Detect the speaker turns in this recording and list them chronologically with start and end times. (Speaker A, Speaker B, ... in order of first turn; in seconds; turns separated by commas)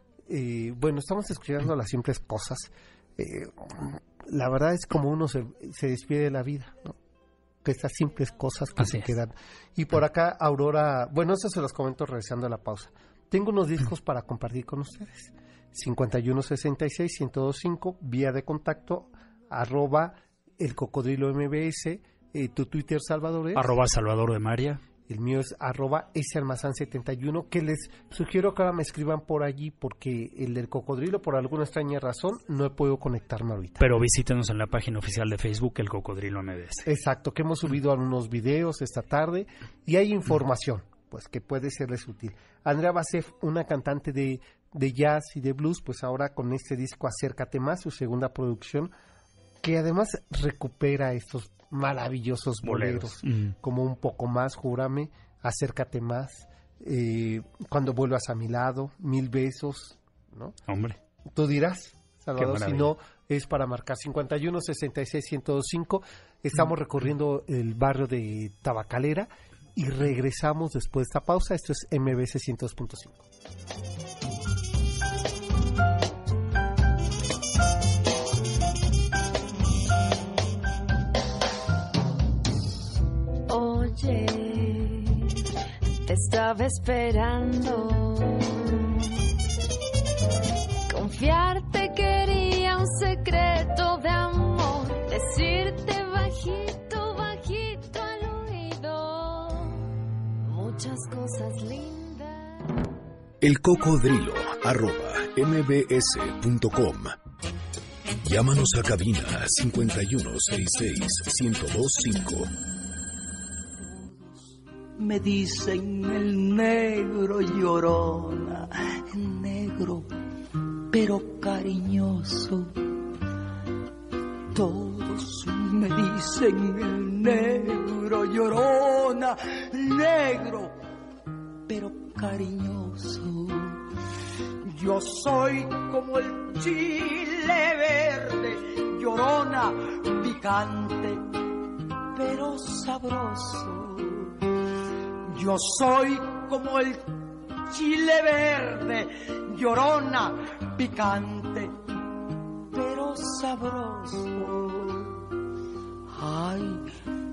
Speaker A: 0.3-7.0, Speaker A: 7.6-23.7, Speaker B: 8.8-9.1, Speaker B: 23.6-24.8, Speaker A: 25.1-33.9, Speaker B: 33.8-36.9, Speaker A: 36.9-48.9, Speaker A: 49.6-60.6, Speaker B: 52.6-53.5, Speaker B: 60.7-61.0, Speaker A: 61.3-73.2, Speaker B: 62.4-62.9, Speaker C: 83.5-85.4, Speaker C: 86.0-89.0, Speaker C: 90.9-102.7, Speaker D: 103.4-107.2, Speaker D: 108.2-112.5, Speaker E: 115.0-120.1, Speaker E: 120.9-122.7, Speaker E: 124.5-130.8, Speaker E: 131.7-133.8, Speaker E: 134.7-141.2, Speaker E: 142.1-144.3, Speaker E: 145.3-151.7, Speaker E: 152.7-155.1, Speaker E: 156.1-156.8